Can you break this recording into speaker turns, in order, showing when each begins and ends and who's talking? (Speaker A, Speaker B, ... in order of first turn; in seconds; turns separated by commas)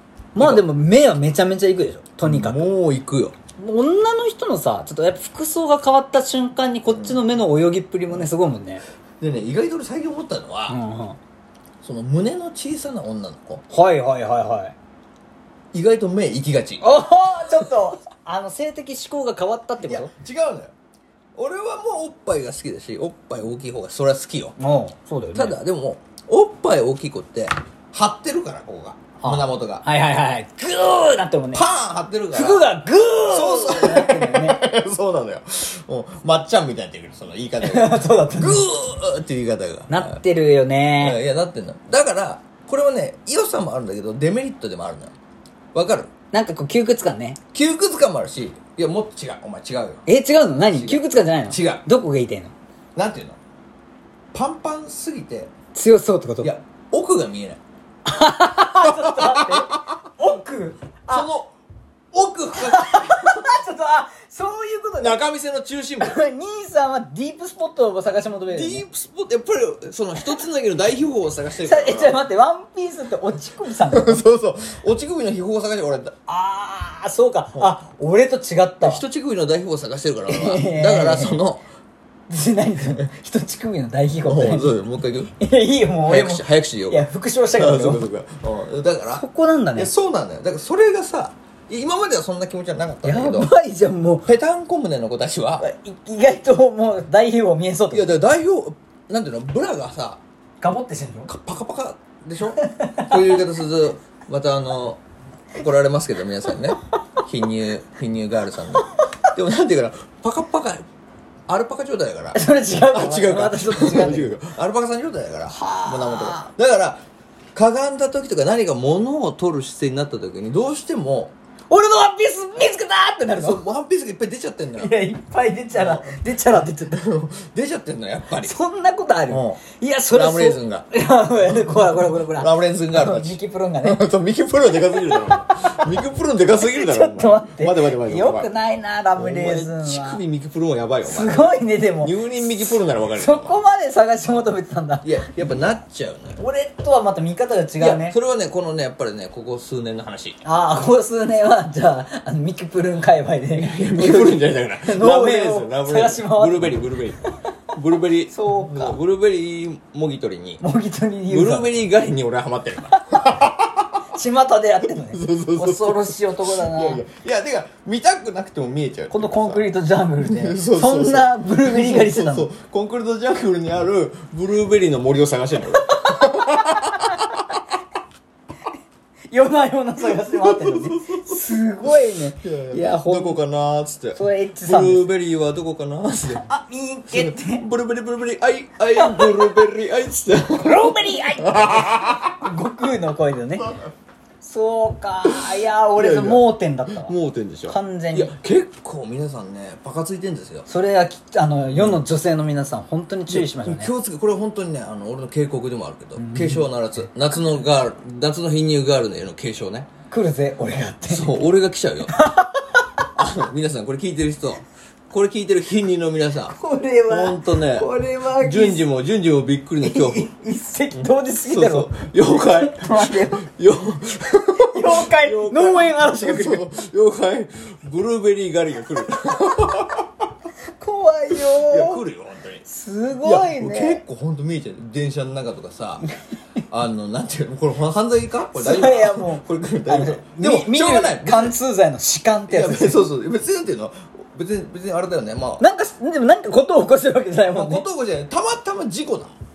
Speaker A: 0.3-2.7, Speaker B: 0.4-0.6, Speaker B: 2.2-3.4, Speaker A: 3.6-8.8, Speaker B: 6.9-7.2, Speaker B: 9.2-10.8, Speaker A: 10.7-11.2, Speaker B: 11.8-13.6, Speaker A: 13.7-14.7, Speaker B: 15.7-16.9, Speaker A: 16.8-20.1, Speaker B: 19.8-20.7, Speaker B: 21.3-24.6, Speaker A: 24.6-25.6, Speaker B: 25.3-29.8, Speaker A: 29.2-31.6, Speaker B: 31.5-40.2, Speaker A: 32.3-34.6, Speaker A: 37.6-38.7, Speaker A: 39.9-41.2, Speaker B: 41.0-45.1, Speaker B: 45.7-46.1, Speaker A: 46.3-47.4, Speaker B: 47.5-50.0, Speaker A: 50.0-52.5, Speaker B: 50.7-51.8, Speaker B: 52.9-53.4, Speaker B: 54.3-55.5, Speaker A: 55.7-56.5, Speaker B: 56.4-57.6, Speaker A: 58.0-61.3, Speaker B: 58.8-59.9, Speaker B: 61.1-61.5, Speaker B: 62.1-63.5, Speaker A: 62.5-65.2, Speaker B: 65.0-66.2, Speaker A: 66.0-68.8, Speaker B: 68.5-72.2, Speaker A: 71.6-74.2, Speaker B: 73.7-76.1, Speaker A: 76.3-79.0, Speaker B: 78.8-81.6, Speaker A: 80.3-81.4, Speaker A: 82.3-84.8, Speaker B: 84.2-85.3, Speaker A: 85.4-88.0, Speaker B: 86.0-93.5, Speaker A: 89.1-89.9, Speaker A: 93.0-94.3, Speaker B: 94.2-95.6, Speaker A: 95.6-98.2, Speaker B: 97.9-100.2, Speaker A: 100.6-101.3, Speaker B: 101.3-105.0, Speaker A: 102.5-103.4, Speaker B: 105.5-110.8, Speaker B: 111.5-117.0, Speaker A: 112.3-114.4, Speaker A: 115.5-116.5, Speaker B: 117.5-121.3, Speaker A: 121.7-123.6, Speaker B: 123.3-125.0, Speaker A: 124.8-127.1, Speaker B: 125.7-126.2, Speaker B: 126.8-128.5, Speaker A: 128.4-134.0, Speaker B: 129.3-130.9, Speaker B: 131.5-138.5, Speaker A: 134.9-135.9, Speaker A: 136.6-140.2, Speaker B: 139.2-143.6, Speaker A: 141.0-145.2, Speaker B: 145.0-146.4, Speaker A: 146.4-148.2, Speaker B: 147.8-150.4, Speaker A: 150.4-157.5, Speaker B: 153.5-160.6, Speaker A: 158.3-159.0, Speaker A: 160.6-161.8, Speaker B: 161.3-163.9, Speaker A: 162.9-163.4, Speaker A: 164.1-167.0, Speaker B: 165.0-169.7, Speaker A: 169.1-172.5, Speaker B: 170.2-177.3, Speaker A: 175.8-177.2, Speaker A: 179.3-183.4, Speaker B: 180.0-186.4, Speaker A: 184.1-185.0, Speaker A: 186.3-187.6, Speaker B: 187.1-192.4, Speaker A: 188.9-189.6, Speaker A: 190.5-193.8, Speaker A: 194.4-197.1, Speaker B: 195.2-200.7, Speaker A: 197.7-198.3, Speaker A: 200.7-203.9, Speaker B: 201.7-202.0, Speaker B: 203.3-209.9, Speaker A: 206.2-206.7, Speaker A: 210.1-211.3, Speaker B: 211.1-212.3, Speaker A: 212.1-212.8, Speaker B: 213.1-220.3, Speaker A: 216.5-218.8, Speaker A: 219.8-223.5, Speaker B: 220.9-230.2, Speaker A: 224.6-226.7, Speaker A: 230.7-232.0, Speaker B: 231.3-232.7, Speaker A: 232.7-234.0, Speaker B: 233.2-236.1, Speaker B: 236.7-241.6, Speaker A: 238.5-243.0, Speaker B: 242.5-245.7, Speaker A: 245.6-247.8, Speaker B: 247.5-249.3